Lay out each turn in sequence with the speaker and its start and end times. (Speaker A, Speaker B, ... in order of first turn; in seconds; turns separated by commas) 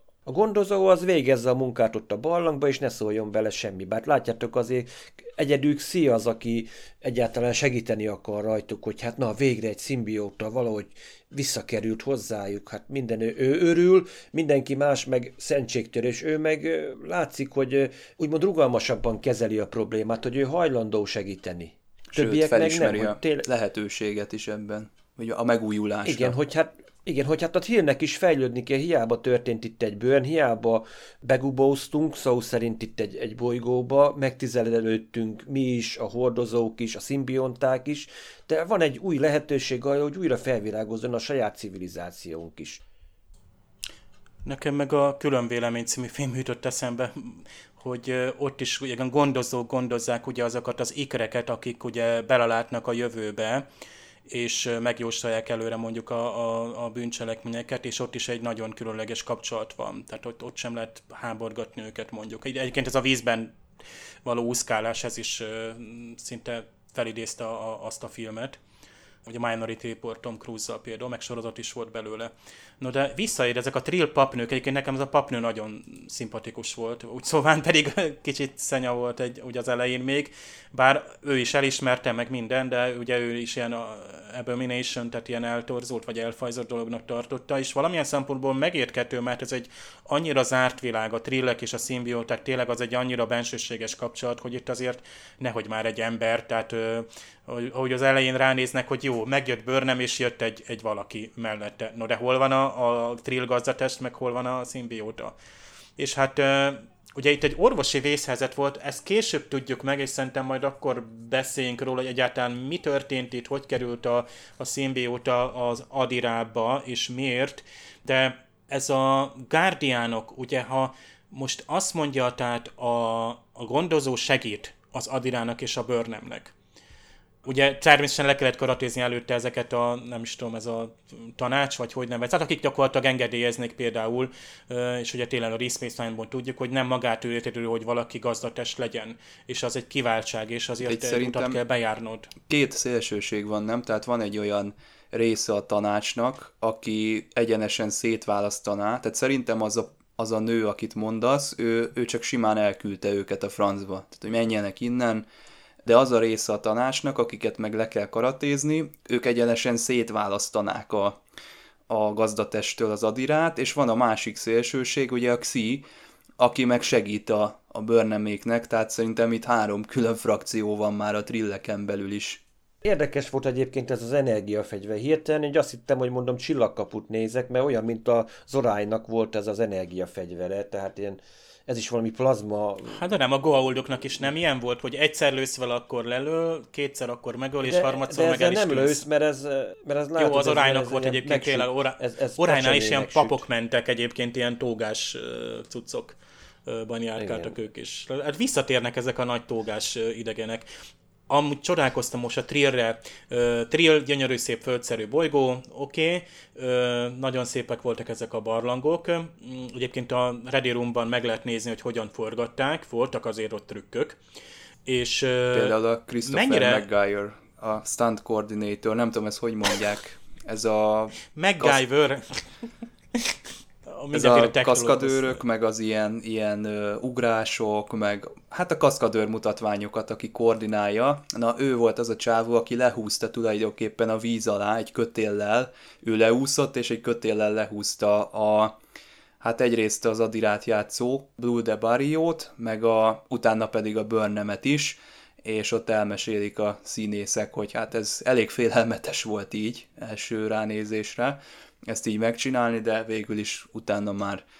Speaker A: 0.3-23.5, Speaker B: 22.1-26.4, Speaker A: 26.1-42.8, Speaker C: 44.5-53.6, Speaker C: 54.3-63.5, Speaker C: 64.2-68.6, Speaker C: 69.3-105.3, Speaker C: 106.0-126.5, Speaker C: 127.5-142.3, Speaker B: 140.8-141.6, Speaker B: 142.5-155.2, Speaker B: 155.8-161.2, Speaker B: 161.9-165.8, Speaker B: 166.4-172.4, Speaker A: 172.8-183.0, Speaker C: 182.9-189.0, Speaker A: 187.7-193.4, Speaker C: 190.2-200.7, Speaker A: 197.2-197.6, Speaker C: 201.3-214.2, Speaker C: 214.9-216.8, Speaker B: 215.5-221.8, Speaker C: 221.3-222.2, Speaker C: 223.9-225.4, Speaker B: 224.1-238.8, Speaker B: 239.4-254.4